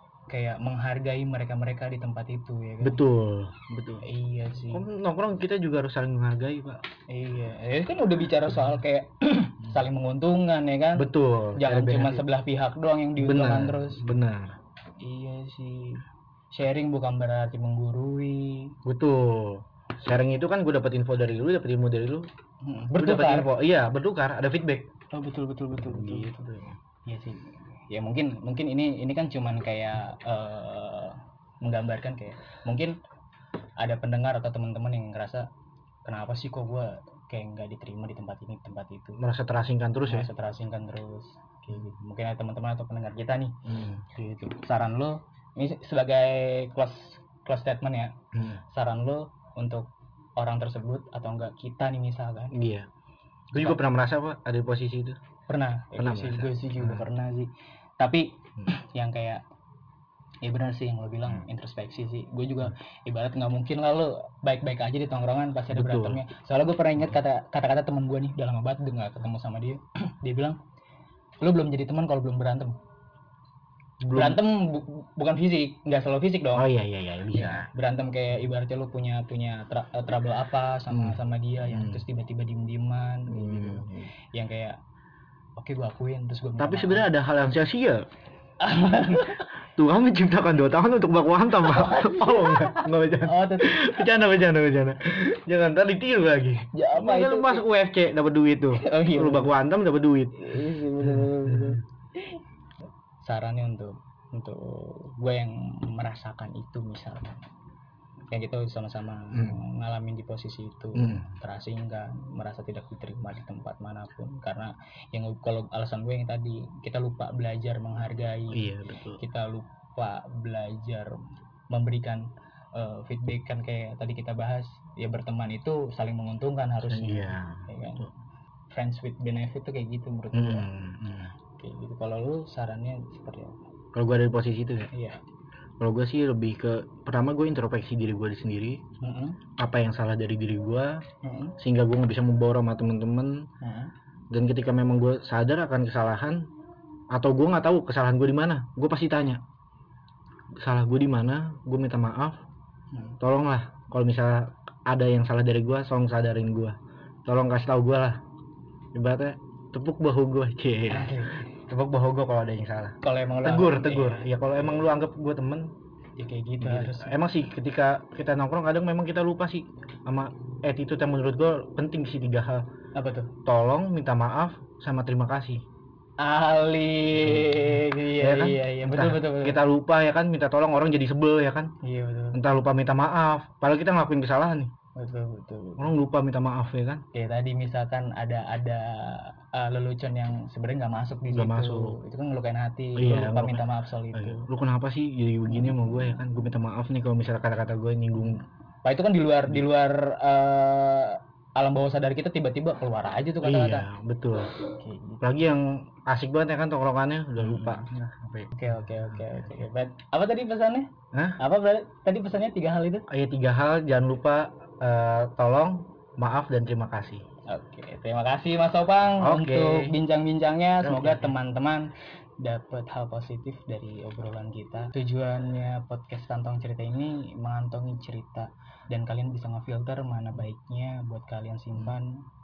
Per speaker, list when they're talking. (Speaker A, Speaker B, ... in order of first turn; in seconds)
Speaker A: 0.3-3.0, 4.0-4.9, 7.1-14.0, 15.0-18.8, 22.6-23.5, 25.1-33.0, 33.8-35.5, 36.0-39.2, 40.0-52.5, 53.5-53.8, 55.5-59.4, 60.4-70.6, 71.4-72.8, 74.1-76.7, 77.3-84.8, 85.6-87.1, 88.6-89.5, 91.7-94.1, 96.7-97.6, 98.7-99.5, 100.3-102.4, 103.2-107.4, 108.3-118.7, 119.2-121.2, 121.7-128.1, 128.7-130.7, 131.6-133.6, 134.9-135.2, 139.0-139.4, 141.2-141.6, 143.6-143.9, 152.9-153.2, 160.9-161.5, 163.0-164.3, 166.2-167.1, 172.9-173.3, 176.2-179.6, 181.8-182.4, 184.9-185.9, 187.1-194.5, 198.8-203.9, 204.6-205.2, 207.4-207.9, 208.5-213.1, 217.5-232.2
Speaker B: 2.8-4.0, 4.7-6.8, 10.9-12.2, 13.2-14.5, 18.8-22.3, 22.9-24.9, 25.8-26.7, 39.2-40.3, 43.6-44.1, 48.3-48.6, 52.5-52.9, 53.5-55.2, 56.0-57.0, 65.7-66.2, 74.0-74.4, 76.5-77.7, 80.9-82.0, 83.3-84.1, 86.6-88.0, 89.8-101.8, 109.3-109.6, 110.9-111.3, 118.5-119.2, 126.9-128.1, 130.3-131.3, 133.9-134.9, 135.8-138.8, 139.6-141.0, 141.6-143.5, 144.3-146.5, 147.1-149.4, 150.6-152.4, 153.2-158.2, 158.9-165.7, 166.6-172.7, 173.4-175.6, 177.2-181.7, 182.3-184.7, 185.8-187.0, 191.3-192.0, 192.9-198.4, 203.4-204.5, 205.2-209.2, 211.1-211.4, 213.1-217.2, 219.1-219.9, 220.8-221.3